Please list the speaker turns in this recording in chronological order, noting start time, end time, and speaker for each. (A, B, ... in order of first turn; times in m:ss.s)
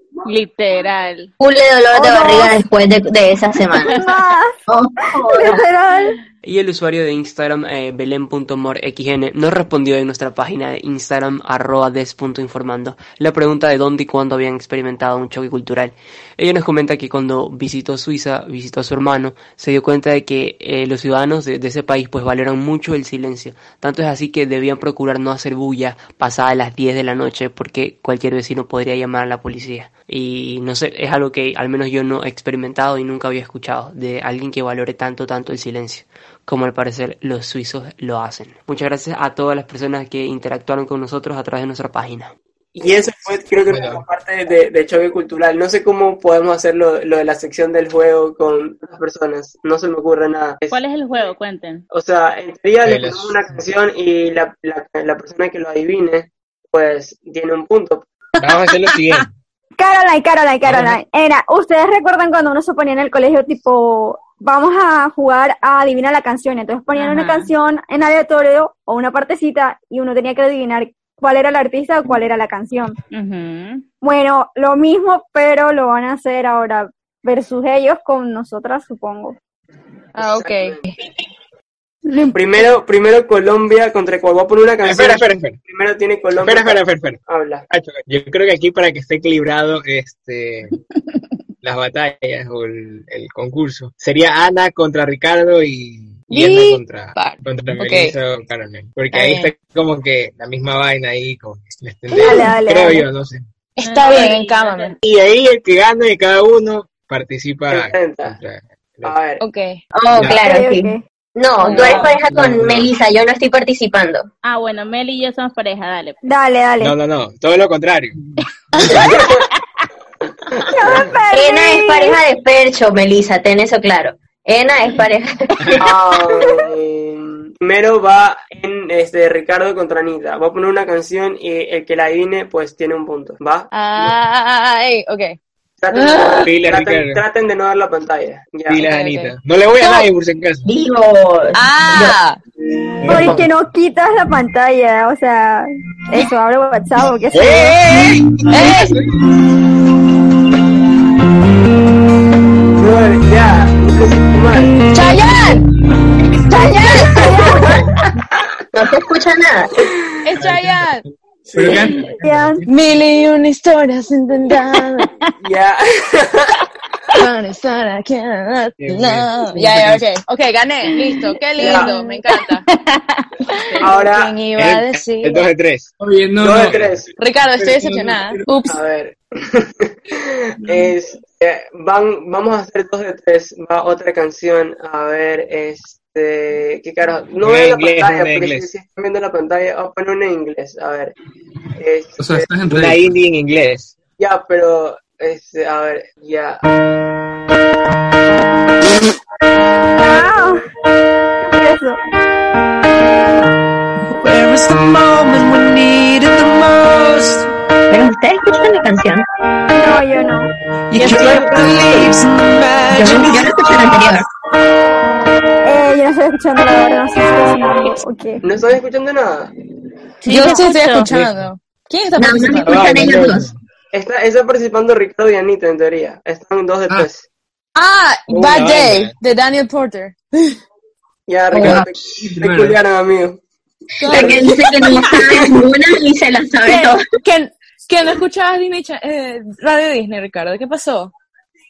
0:00.2-0:01.3 A
0:01.4-0:04.0 B
0:01.9-0:02.6 C
0:03.9-0:06.2 C
0:04.7-0:05.6 B
0:06.4-0:50.8 D
0:43.6-0:44.0 E
0:50.7-0:51.8 A
0:51.9-0:58.0 D
0:52.8-0:53.6 E
0:58.4-0:59.3 E
0:59.8-1:12.9 C
1:00.6-1:01.0 E
1:07.0-1:07.5 A
1:13.1-1:13.8 A
1:14.0-1:19.4 C
1:20.2-1:21.0 F
1:20.2-1:20.8 D
1:22.1-1:22.3 C
1:22.3-1:27.6 D
1:24.8-1:25.6 E
1:26.4-1:27.2 E
1:27.7-1:30.7 E
1:31.6-1:43.4 E
1:36.3-1:38.1 F
1:39.1-1:39.5 F
1:42.1-1:43.0 C
1:43.8-1:45.0 F
1:43.8-1:44.9 A
1:45.0-1:49.1 E
1:47.7-1:48.4 D
1:49.0-1:49.4 D
1:49.4-1:49.8 F
1:49.9-1:54.3 B
1:50.1-1:50.4 E
1:50.3-1:51.0 C
1:51.6-1:52.1 F
1:52.3-1:52.9 E
1:54.4-1:56.2 A
1:56.2-1:56.9 C
1:56.8-1:58.2 E
1:59.1-1:59.4 D
2:00.7-2:02.2 C
2:01.3-2:05.9 B
2:05.8-2:13.7 D
2:13.7-2:15.4 F
2:15.8-2:18.8 D
2:15.9-2:16.4 F
2:16.4-2:17.2 E
2:18.7-2:20.7 E
2:18.8-2:20.0 F
2:20.6-2:22.2 B
2:21.6-2:22.4 F
2:23.0-2:23.5 E
2:23.1-2:27.8 C
2:27.3-2:29.0 E
2:28.5-2:29.0 F
2:32.7-2:34.8 D
2:34.9-2:35.6 F
2:36.4-2:37.4 F
2:37.0-2:37.8 C
2:38.7-2:39.7 B
2:40.2-2:41.0 F
2:40.4-2:41.0 E
2:41.5-2:41.8 D
2:41.5-2:42.7 G
2:42.2-2:42.6 C
2:42.7-2:45.1 F
2:45.4-2:46.6 D
2:47.1-2:52.6 F
2:48.8-2:50.0 E
2:50.9-2:53.8 A
2:51.6-2:52.0 D
2:53.4-2:55.4 F
2:53.8-2:54.4 D
2:54.6-2:55.9 E
2:56.0-2:56.9 G
2:56.4-2:57.1 D
2:56.6-2:57.0 E
2:57.2-2:58.8 F
2:57.4-2:58.4 G
2:58.7-3:11.1 D
3:07.4-3:08.7 E
3:11.8-3:12.5 D
3:12.2-3:13.1 G
3:12.7-3:13.9 E
3:14.2-3:16.6 D
3:20.0-3:20.6 C
3:21.4-3:22.0 C
3:24.2-3:27.5 H
3:27.9-3:29.2 B
3:29.7-3:30.5 C
3:30.9-3:33.5 H
3:31.0-3:31.4 A
3:31.0-3:32.1 D
3:32.9-3:34.2 B
3:35.6-3:38.4 C
3:38.4-3:39.5 D
3:40.2-3:43.1 F
3:40.2-3:41.1 A
3:42.1-3:43.5 B
3:42.6-3:43.6 E
3:43.9-3:47.2 D
3:47.8-3:50.6 F
3:48.3-3:49.1 E
3:51.3-3:53.4 D
3:51.5-3:51.8 B
3:51.6-3:52.8 G
3:54.0-3:55.1 F
3:54.1-3:57.0 B
3:56.6-4:01.1 F